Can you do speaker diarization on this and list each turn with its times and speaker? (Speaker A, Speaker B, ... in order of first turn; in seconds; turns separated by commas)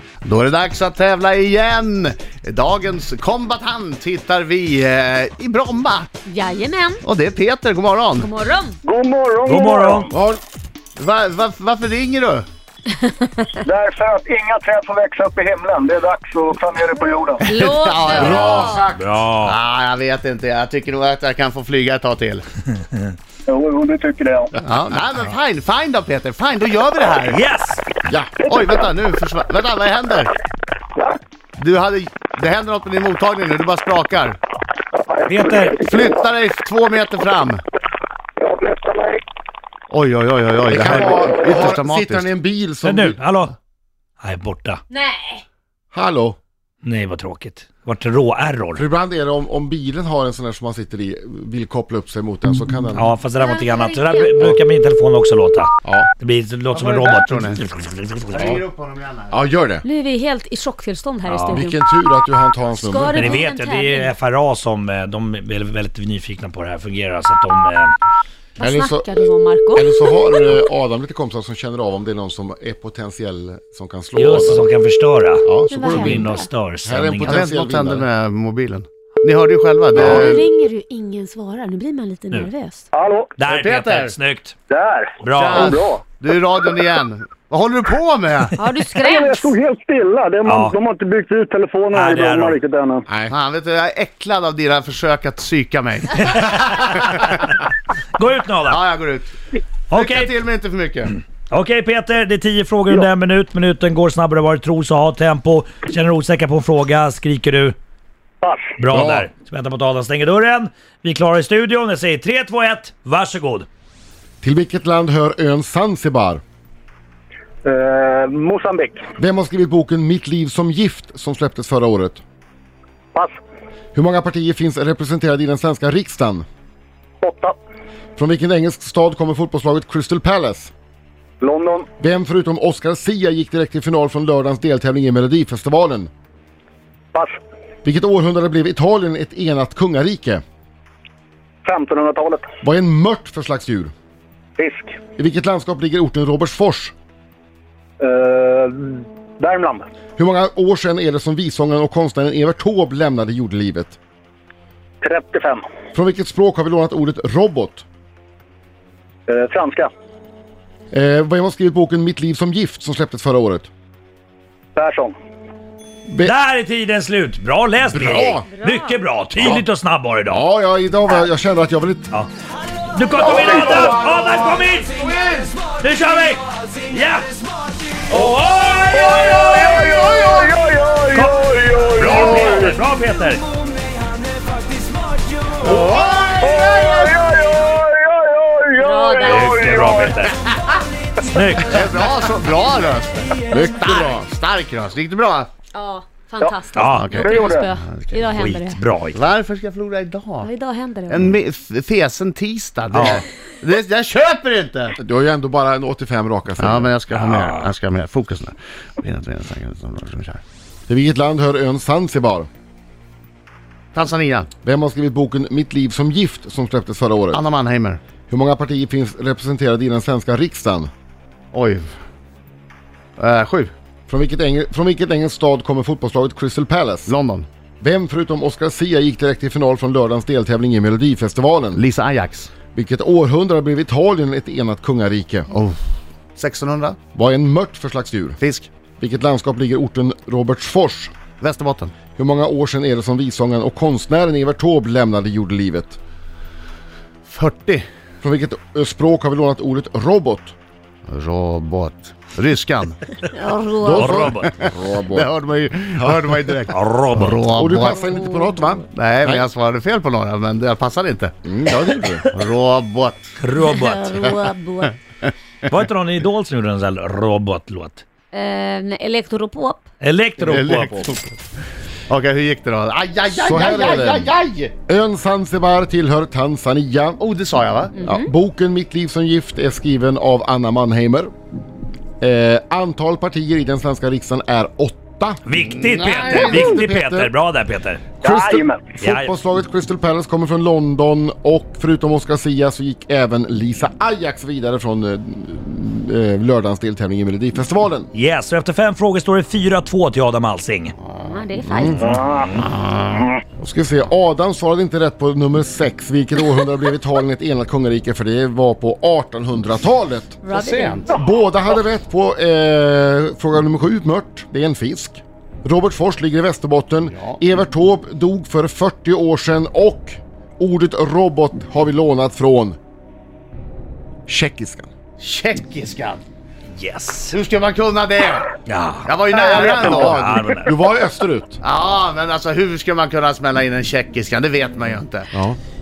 Speaker A: 0.2-6.1, Speaker B: 6.2-7.0, Speaker A: 7.0-8.3, Speaker B: 8.2-8.8, Speaker C: 8.8-10.1, Speaker D: 9.4-10.1, Speaker E: 10.1-10.4, Speaker A: 10.9-12.4, Speaker B: 13.0-13.4, Speaker C: 13.6-17.4, Speaker B: 17.4-18.9, Speaker A: 17.4-18.8, Speaker E: 18.1-19.0, Speaker D: 18.9-19.5, Speaker A: 19.4-22.4, Speaker C: 23.5-24.5, Speaker A: 24.6-27.4, Speaker D: 27.2-27.8, Speaker E: 28.1-28.3, Speaker A: 28.4-30.3, Speaker A: 31.6-34.4, Speaker D: 35.3-35.8, Speaker A: 35.8-37.6, Speaker C: 38.4-39.2, Speaker A: 39.9-42.3, Speaker E: 40.7-43.2, Speaker D: 42.8-43.5, Speaker D: 44.2-44.8, Speaker B: 44.9-45.4, Speaker E: 45.9-46.4, Speaker D: 46.8-48.8, Speaker E: 48.7-53.1, Speaker D: 52.9-58.6, Speaker B: 53.4-54.4, Speaker E: 55.8-56.1, Speaker A: 56.7-57.6, Speaker A: 58.3-59.4, Speaker E: 59.3-59.8, Speaker B: 59.8-61.8, Speaker D: 61.3-61.7, Speaker E: 61.5-63.4, Speaker B: 62.8-64.1, Speaker D: 63.1-67.9, Speaker B: 68.6-70.4, Speaker E: 68.6-74.6, Speaker D: 74.2-77.4, Speaker E: 75.4-76.3, Speaker B: 75.7-76.4, Speaker E: 76.8-78.1, Speaker A: 77.3-80.4, Speaker E: 79.9-80.4, Speaker B: 80.0-82.9, Speaker C: 82.9-83.3, Speaker D: 83.4-84.5, Speaker A: 83.5-84.2, Speaker C: 84.7-86.0, Speaker D: 85.2-85.7, Speaker A: 85.3-88.5, Speaker B: 88.6-89.5, Speaker C: 88.9-93.0, Speaker D: 90.4-90.7, Speaker D: 91.9-92.6, Speaker E: 93.1-93.3, Speaker A: 93.3-97.3, Speaker D: 96.2-97.5, Speaker D: 98.1-98.8, Speaker A: 98.7-99.3, Speaker D: 99.9-100.3, Speaker A: 99.9-101.2, Speaker D: 101.5-107.8, Speaker C: 108.4-108.7, Speaker D: 108.8-113.7, Speaker E: 108.9-109.3, Speaker E: 114.4-116.4, Speaker C: 117.6-119.0, Speaker E: 119.2-122.2, Speaker E: 123.9-126.5, Speaker C: 127.2-127.5, Speaker E: 128.2-130.7, Speaker C: 131.4-131.9, Speaker E: 132.0-136.1, Speaker E: 137.8-140.4, Speaker C: 141.6-142.4, Speaker E: 142.6-143.9, Speaker C: 144.6-145.0, Speaker E: 145.2-146.9, Speaker C: 148.0-149.9, Speaker E: 150.2-153.9, Speaker C: 155.0-155.6, Speaker E: 155.9-157.8, Speaker C: 159.3-159.9, Speaker E: 160.9-163.7, Speaker C: 164.8-165.1, Speaker E: 166.1-166.3, Speaker D: 166.2-170.4, Speaker E: 167.8-168.5, Speaker B: 168.5-169.0, Speaker E: 169.3-169.7, Speaker E: 170.2-172.1, Speaker D: 172.9-174.9, Speaker C: 173.2-174.0, Speaker D: 175.6-177.3, Speaker D: 178.1-180.2, Speaker C: 178.9-182.8, Speaker D: 181.1-181.4, Speaker D: 181.9-183.4, Speaker A: 185.6-186.8, Speaker C: 185.6-190.2, Speaker B: 188.7-190.1, Speaker D: 189.2-190.3, Speaker D: 191.3-191.9, Speaker A: 191.6-195.5, Speaker E: 193.5-194.3, Speaker B: 195.7-198.8, Speaker D: 196.7-197.3, Speaker A: 196.9-198.3, Speaker C: 197.1-197.7, Speaker D: 198.3-199.2, Speaker A: 199.1-200.5, Speaker B: 200.4-201.3, Speaker A: 201.1-205.0, Speaker D: 202.9-203.2, Speaker E: 205.0-206.9, Speaker A: 206.6-210.4, Speaker D: 207.1-207.6, Speaker E: 210.9-212.5, Speaker A: 213.9-214.5, Speaker E: 214.6-217.4, Speaker A: 217.3-218.0, Speaker E: 218.3-220.9, Speaker A: 221.5-221.9, Speaker A: 223.2-223.7, Speaker E: 224.1-227.1, Speaker A: 227.1-227.5, Speaker E: 227.8-231.8, Speaker A: 231.7-232.5, Speaker E: 232.7-235.5, Speaker A: 235.5-235.8, Speaker A: 236.3-237.0, Speaker E: 237.1-238.4, Speaker A: 238.4-238.7, Speaker E: 239.0-241.1, Speaker A: 241.4-241.9, Speaker E: 242.2-246.0, Speaker A: 247.3-247.8, Speaker E: 248.2-250.5, Speaker A: 251.1-253.0, Speaker B: 253.3-254.3, Speaker E: 253.8-255.3, Speaker D: 253.9-254.5, Speaker A: 254.6-258.1, Speaker D: 256.7-257.4, Speaker E: 257.4-259.4, Speaker A: 258.9-261.4, Speaker E: 261.4-262.2, Speaker A: 262.3-263.3, Speaker D: 263.4-264.3, Speaker B: 263.6-265.0, Speaker D: 265.6-268.0, Speaker B: 268.3-269.8, Speaker D: 270.0-271.1, Speaker A: 270.4-271.4, Speaker E: 270.7-271.1, Speaker A: 272.1-274.7, Speaker E: 273.3-274.3, Speaker E: 274.9-277.2, Speaker A: 277.2-277.9, Speaker B: 277.9-278.3, Speaker E: 278.0-281.3, Speaker E: 282.2-285.4, Speaker D: 285.4-288.1, Speaker A: 285.8-286.5, Speaker E: 286.3-287.3, Speaker E: 288.2-298.1, Speaker C: 288.2-288.9, Speaker D: 289.0-289.4, Speaker D: 298.1-300.9, Speaker A: 301.1-301.4, Speaker B: 301.2-302.0, Speaker E: 301.6-302.0, Speaker D: 301.9-302.7, Speaker C: 302.0-303.3, Speaker E: 303.6-310.4, Speaker B: 310.4-311.0, Speaker A: 310.5-311.1, Speaker E: 311.1-322.8, Speaker A: 317.1-317.4, Speaker E: 324.3-324.9, Speaker A: 325.2-326.2, Speaker D: 326.7-327.3, Speaker A: 327.3-328.5, Speaker D: 328.6-330.9, Speaker A: 329.0-330.4, Speaker E: 329.3-331.6, Speaker A: 331.6-335.4